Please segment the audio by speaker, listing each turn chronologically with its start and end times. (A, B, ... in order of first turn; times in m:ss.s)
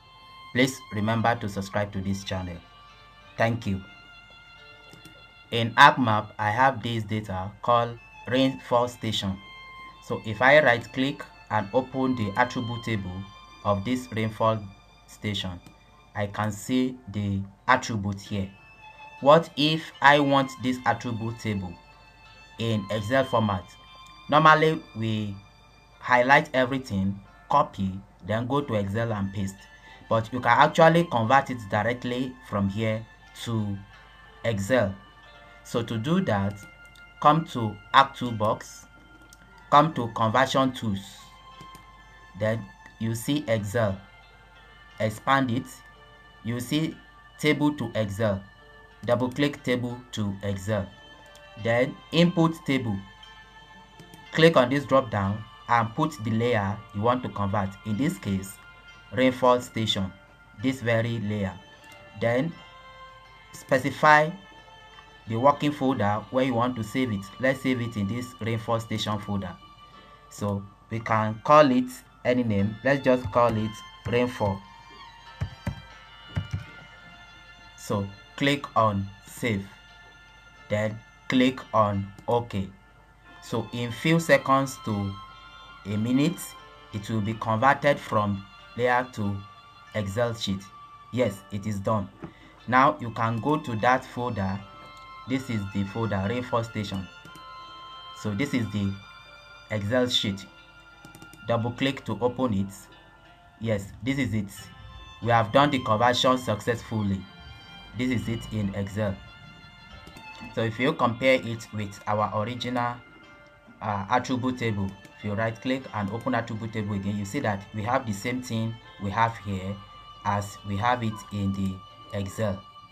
0:00.5-0:02.6 A
0:03.4-0:03.9 A
0:05.5-0:09.4 A
0:10.0-0:15.6 A
0:16.2-0:18.6 A
0:19.2-0:21.8 A
0:22.6-0:25.4 A
0:26.0-0:33.8 A
0:34.4-0:35.0 A
0:35.6-0:36.6 A
0:37.2-0:38.9 A
0:39.7-0:41.4 A
0:42.3-0:44.0 A
0:45.0-0:45.8 A
0:46.4-0:48.5 A
0:49.0-0:50.9 A
0:51.6-0:53.0 A
0:54.3-0:58.6 A
0:59.1-1:01.6 A
1:02.2-1:02.6 A
1:03.5-1:04.4 A
1:05.3-1:09.6 A
1:10.3-1:14.6 A
1:17.8-1:19.8 A
1:20.7-1:22.7 A
1:23.4-1:25.2 A
1:25.8-1:32.1 A
1:32.7-1:34.6 A
1:35.3-1:37.1 A
1:38.1-1:39.0 A
1:39.7-1:40.5 A
1:41.4-1:42.9 A
1:43.6-1:47.3 A
1:47.9-1:49.2 A
1:50.5-1:53.0 A
1:53.8-2:02.6 A